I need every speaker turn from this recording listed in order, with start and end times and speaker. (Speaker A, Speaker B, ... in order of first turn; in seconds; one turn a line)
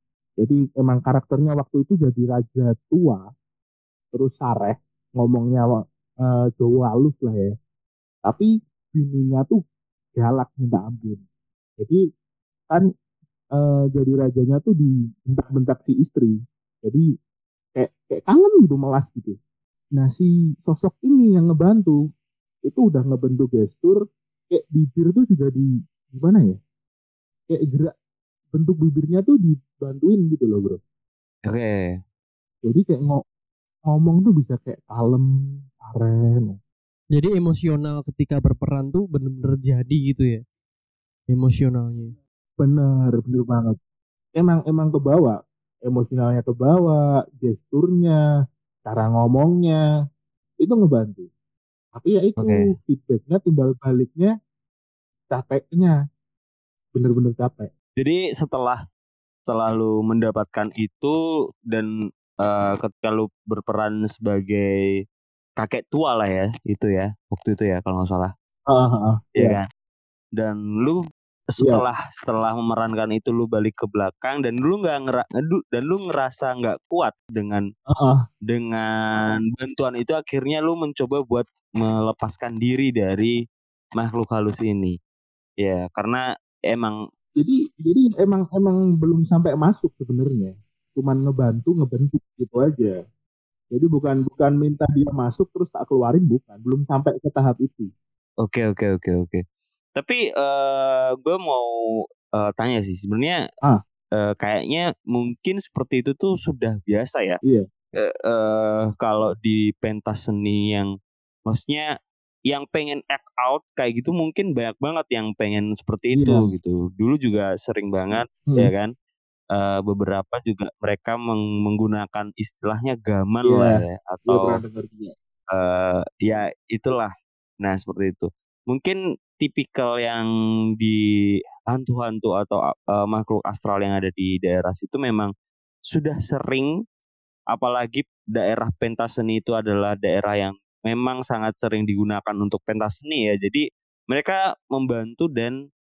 Speaker A: 0.4-3.2
Speaker A: 4.1-7.5
Speaker A: 8.2-9.6
Speaker A: 10.2-11.2
Speaker A: 13.5-17.1
Speaker A: 17.7-19.4
Speaker A: 19.9-22.0
Speaker A: 22.6-24.0
Speaker A: 24.5-26.6
Speaker A: 27.5-27.9
Speaker A: 28.5-30.8
Speaker B: 31.5-32.0
Speaker A: 32.6-33.2
Speaker A: 33.9-36.6
Speaker C: 37.1-40.4
Speaker C: 41.3-42.1
Speaker A: 42.6-43.8
Speaker A: 44.4-48.2
Speaker A: 48.8-49.8
Speaker A: 50.6-51.3
Speaker A: 51.9-54.3
Speaker B: 52.4-52.7
Speaker A: 55.3-56.0
Speaker A: 56.9-57.7
Speaker B: 58.0-58.8
Speaker B: 59.5-64.8
Speaker B: 65.6-68.3
Speaker A: 68.7-69.6
Speaker B: 69.3-69.7
Speaker B: 70.4-77.6
Speaker A: 71.6-71.8
Speaker A: 77.9-78.2
Speaker B: 78.5-83.3
Speaker B: 84.0-85.0
Speaker B: 85.6-87.0
Speaker A: 87.3-93.0
Speaker A: 93.7-97.9
Speaker B: 98.4-99.4
Speaker B: 100.0-101.7
Speaker B: 102.3-103.4
Speaker B: 104.2-107.4
Speaker B: 108.0-110.9
Speaker B: 111.5-111.9
Speaker B: 112.5-118.9
Speaker A: 116.1-116.5
Speaker A: 118.5-118.7
Speaker B: 119.5-124.6
Speaker A: 123.4-125.1
Speaker B: 125.5-127.1
Speaker B: 127.6-130.3
Speaker B: 131.7-135.3
Speaker B: 135.9-136.7
Speaker B: 137.5-145.6